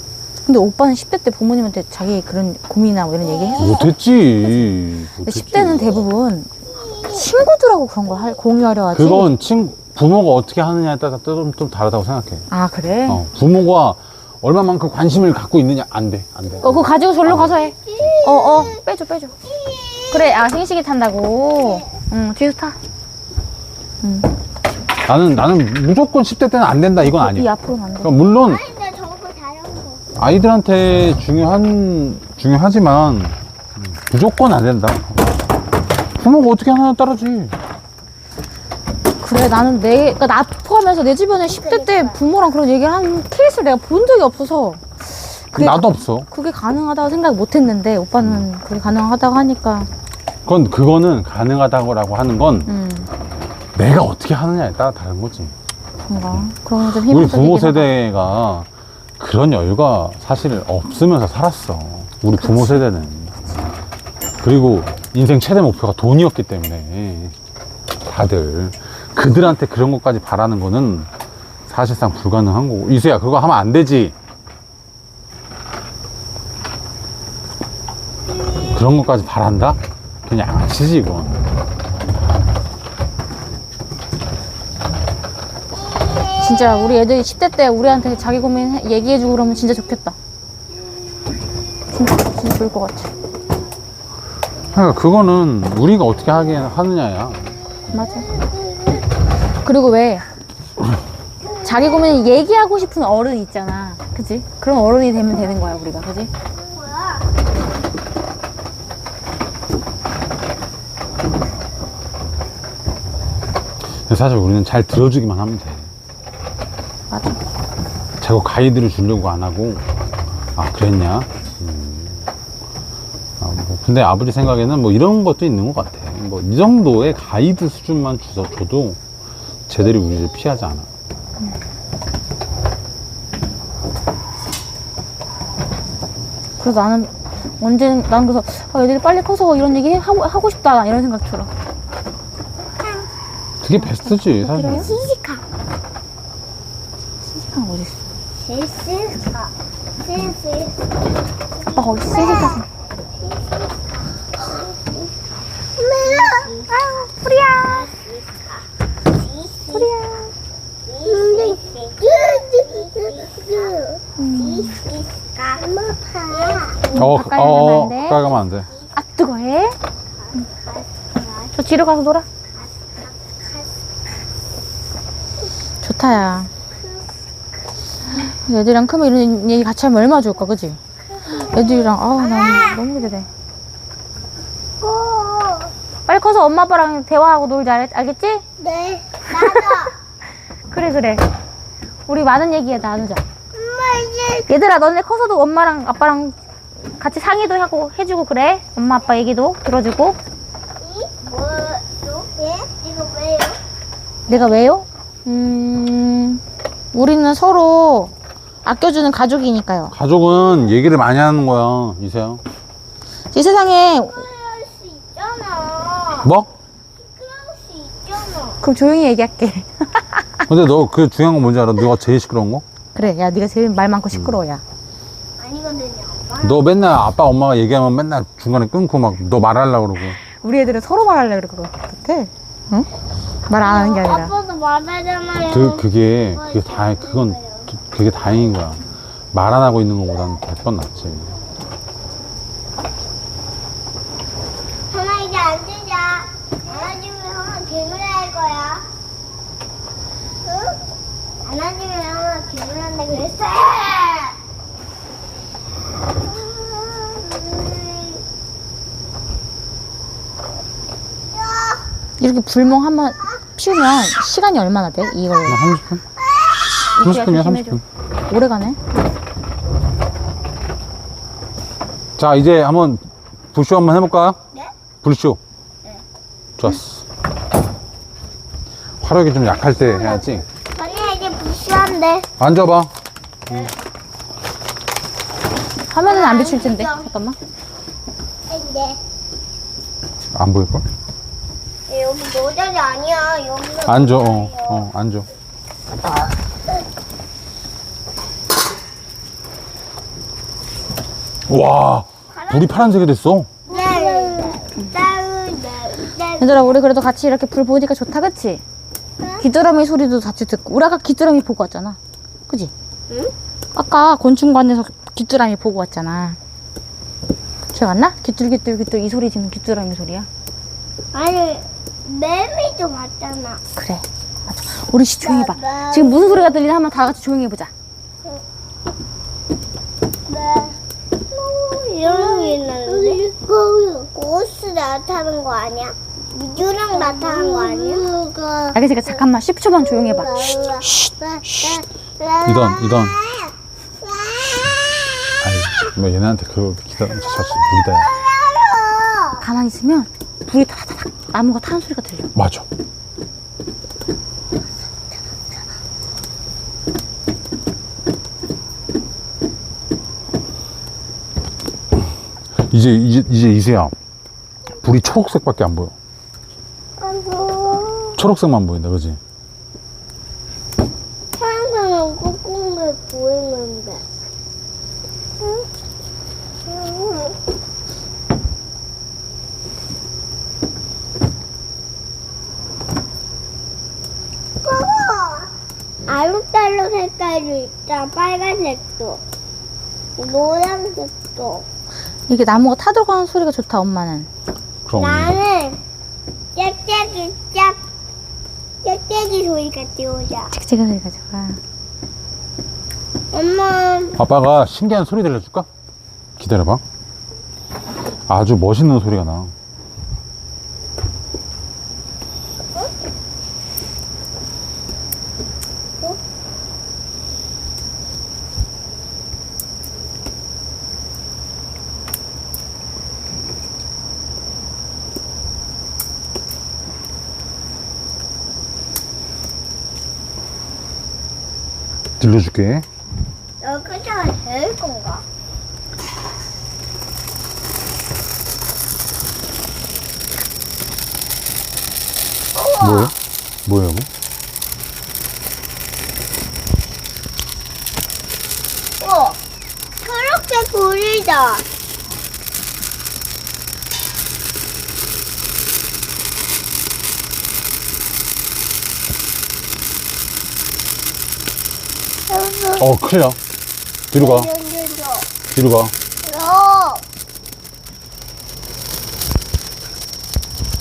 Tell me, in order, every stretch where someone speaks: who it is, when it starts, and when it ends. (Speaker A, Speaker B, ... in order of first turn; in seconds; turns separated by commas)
Speaker A: 0.4-3.9, Speaker B: 3.6-6.0, Speaker A: 5.2-9.3, Speaker B: 8.9-12.5, Speaker A: 12.5-13.2, Speaker B: 13.1-18.1, Speaker A: 16.6-19.4, Speaker C: 17.5-18.7, Speaker C: 19.5-20.4, Speaker A: 20.1-22.8, Speaker A: 24.0-24.3, Speaker B: 25.1-27.5, Speaker A: 27.0-28.1, Speaker B: 28.0-28.6, Speaker C: 28.2-30.0, Speaker B: 30.2-35.2, Speaker B: 36.2-37.6, Speaker A: 39.2-49.9, Speaker C: 41.5-42.2, Speaker B: 45.5-46.3, Speaker B: 48.2-48.5, Speaker B: 50.5-52.7, Speaker A: 52.6-53.1, Speaker B: 53.7-55.5, Speaker A: 56.1-57.9, Speaker B: 57.0-58.7, Speaker B: 59.2-63.4, Speaker A: 62.4-62.8, Speaker B: 64.4-67.3, Speaker B: 68.0-71.1, Speaker B: 71.7-74.1, Speaker B: 78.6-81.5, Speaker C: 85.9-87.0, Speaker A: 86.3-90.2, Speaker A: 91.9-93.1, Speaker B: 94.7-97.5, Speaker A: 97.9-98.3, Speaker A: 99.6-100.2, Speaker C: 101.6-102.0, Speaker A: 101.6-106.3, Speaker C: 106.5-107.3, Speaker B: 113.9-115.9, Speaker A: 117.1-117.4, Speaker B: 118.2-119.8, Speaker B: 120.5-122.3, Speaker B: 123.4-129.0, Speaker B: 129.7-130.9, Speaker A: 136.6-141.5, Speaker B: 143.6-145.0, Speaker A: 143.8-144.9, Speaker C: 144.7-145.4, Speaker A: 147.2-148.0, Speaker C: 148.4-150.8, Speaker C: 151.7-152.6, Speaker A: 151.7-152.7, Speaker C: 153.2-155.1, Speaker C: 155.8-157.1, Speaker A: 156.7-157.9, Speaker C: 157.6-159.9, Speaker A: 159.7-160.3, Speaker C: 160.8-166.8, Speaker A: 164.2-164.8, Speaker A: 166.9-168.3, Speaker B: 166.9-168.7, Speaker A: 168.9-169.8, Speaker C: 170.2-171.5, Speaker A: 171.5-172.2, Speaker C: 172.6-173.7, Speaker A: 175.8-176.5, Speaker A: 178.1-183.3, Speaker C: 184.8-185.7, Speaker A: 186.1-188.4, Speaker C: 188.6-189.9, Speaker A: 189.3-189.8, Speaker A: 190.7-191.2, Speaker A: 192.1-193.2, Speaker C: 193.5-194.5, Speaker A: 194.5-196.3, Speaker A: 197.0-200.2, Speaker C: 200.8-203.6, Speaker C: 204.3-204.7, Speaker A: 204.3-206.4, Speaker A: 206.9-208.1, Speaker A: 208.6-209.9, Speaker B: 209.9-212.4, Speaker A: 213.3-214.2, Speaker C: 214.1-216.3, Speaker B: 216.2-216.5, Speaker C: 217.0-218.6, Speaker A: 218.6-220.4, Speaker B: 220.5-222.6, Speaker A: 222.9-224.6, Speaker C: 225.4-226.6, Speaker B: 226.4-230.2, Speaker A: 230.3-232.9, Speaker A: 233.5-234.3, Speaker C: 233.6-237.7, Speaker B: 235.5-241.4, Speaker C: 244.9-248.8, Speaker C: 250.4-250.8, Speaker C: 251.4-254.4, Speaker C: 256.2-258.2, Speaker C: 261.3-261.8, Speaker A: 262.2-265.6, Speaker B: 265.4-266.0, Speaker A: 266.9-268.8, Speaker B: 267.0-267.8, Speaker B: 272.2-274.4, Speaker B: 275.0-275.4, Speaker B: 276.6-277.0, Speaker B: 279.0-280.4, Speaker C: 279.6-282.3, Speaker B: 282.4-282.9, Speaker A: 285.9-287.4, Speaker C: 286.0-287.1, Speaker C: 288.5-289.0, Speaker B: 290.3-290.8, Speaker C: 291.9-294.8, Speaker B: 293.8-295.3, Speaker B: 301.5-303.5, Speaker C: 302.4-302.9, Speaker C: 303.7-306.7, Speaker A: 303.7-304.9, Speaker A: 306.4-308.6, Speaker A: 309.4-312.7, Speaker A: 313.7-316.4, Speaker A: 317.7-320.3, Speaker C: 321.1-323.6, Speaker A: 323.8-327.7, Speaker C: 325.2-326.6, Speaker C: 330.3-330.8, Speaker C: 331.3-338.7, Speaker A: 338.7-340.7, Speaker C: 340.0-344.7, Speaker B: 341.4-341.8, Speaker B: 342.4-343.2, Speaker B: 345.4-348.1, Speaker C: 348.0-349.4, Speaker A: 349.4-352.3, Speaker B: 352.3-352.6, Speaker B: 362.6-363.9, Speaker B: 364.8-365.9, Speaker C: 367.0-368.2, Speaker B: 368.1-369.2, Speaker C: 371.3-374.0, Speaker C: 376.7-377.4, Speaker C: 384.6-385.5, Speaker C: 386.1-389.2, Speaker C: 390.2-391.6, Speaker A: 392.3-394.3, Speaker B: 394.9-395.4, Speaker C: 395.0-395.8, Speaker C: 396.6-397.8, Speaker C: 398.8-400.5, Speaker A: 400.5-401.6, Speaker C: 403.3-404.2, Speaker B: 404.2-405.7, Speaker B: 406.4-406.8, Speaker B: 408.3-409.5, Speaker B: 432.2-432.9, Speaker C: 433.6-435.2, Speaker C: 442.5-443.1, Speaker B: 442.8-443.1, Speaker B: 443.6-444.1, Speaker C: 449.0-449.4, Speaker C: 450.0-451.6, Speaker C: 462.3-462.9, Speaker B: 462.8-463.4, Speaker B: 464.1-464.5, Speaker C: 464.2-465.3, Speaker B: 465.5-465.9, Speaker C: 466.2-467.0